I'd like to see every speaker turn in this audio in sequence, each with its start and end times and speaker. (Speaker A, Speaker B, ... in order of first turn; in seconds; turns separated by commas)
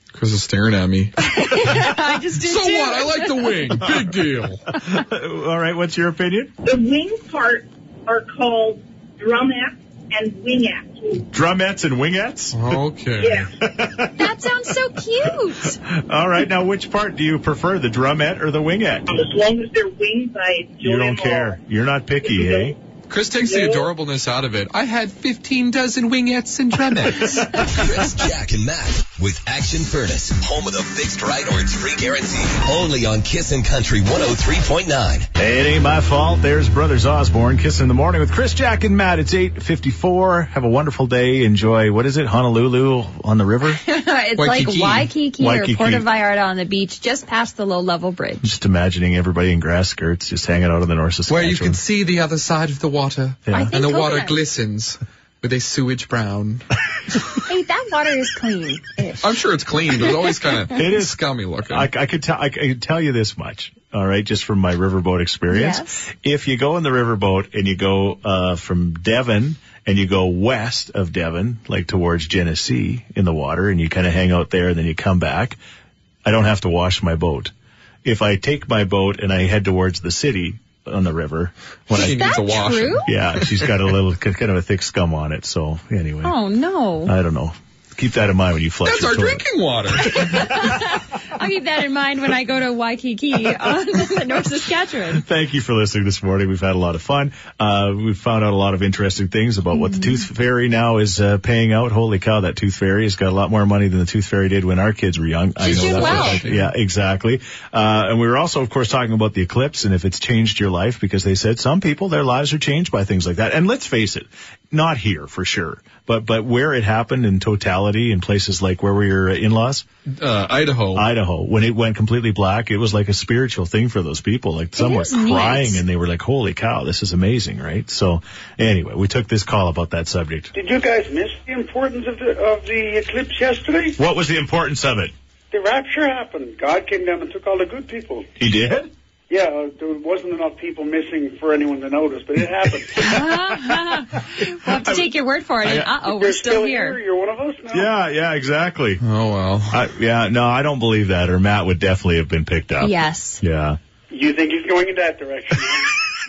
Speaker A: 0.1-1.1, Speaker B: 1.2-3.7, Speaker A: 2.4-4.7, Speaker C: 4.7-6.5, Speaker D: 6.6-11.2, Speaker C: 11.3-12.8, Speaker A: 12.5-13.5, Speaker D: 13.2-13.4, Speaker C: 13.6-14.3, Speaker B: 14.1-15.8, Speaker C: 15.6-19.1, Speaker D: 19.1-21.6, Speaker C: 20.8-22.8, Speaker D: 22.5-22.7, Speaker A: 23.1-27.7, Speaker D: 23.4-23.9, Speaker E: 27.6-35.3, Speaker C: 35.4-43.8, Speaker B: 43.8-48.5, Speaker A: 44.4-45.1, Speaker C: 45.4-46.1, Speaker C: 48.4-51.8, Speaker A: 51.3-56.7, Speaker C: 53.5-53.7, Speaker B: 53.5-54.4, Speaker B: 57.4-59.3, Speaker A: 59.2-61.9, Speaker C: 60.7-75.6, Speaker B: 65.5-66.0, Speaker C: 76.2-77.5, Speaker C: 78.0-82.4, Speaker A: 81.9-83.7, Speaker B: 81.9-83.1, Speaker C: 83.0-86.3, Speaker B: 86.2-87.1, Speaker C: 87.0-89.5, Speaker A: 88.8-90.3, Speaker C: 90.1-90.8, Speaker B: 90.1-95.2, Speaker C: 95.1-119.9, Speaker B: 99.7-100.2, Speaker A: 105.6-106.7, Speaker B: 105.6-106.4, Speaker A: 120.1-121.1, Speaker C: 120.9-130.5, Speaker B: 124.8-125.8, Speaker F: 130.6-134.0, Speaker C: 134.0-135.1, Speaker F: 135.5-138.3, Speaker C: 138.4-138.9, Speaker F: 139.3-143.1, Speaker B: 142.9-147.0, Speaker C: 143.0-143.7, Speaker C: 144.6-145.1, Speaker C: 145.6-145.9, Speaker F: 146.1-147.9, Speaker C: 147.7-149.0, Speaker A: 149.0-149.8, Speaker C: 149.7-153.8, Speaker B: 152.8-153.4, Speaker F: 154.1-155.9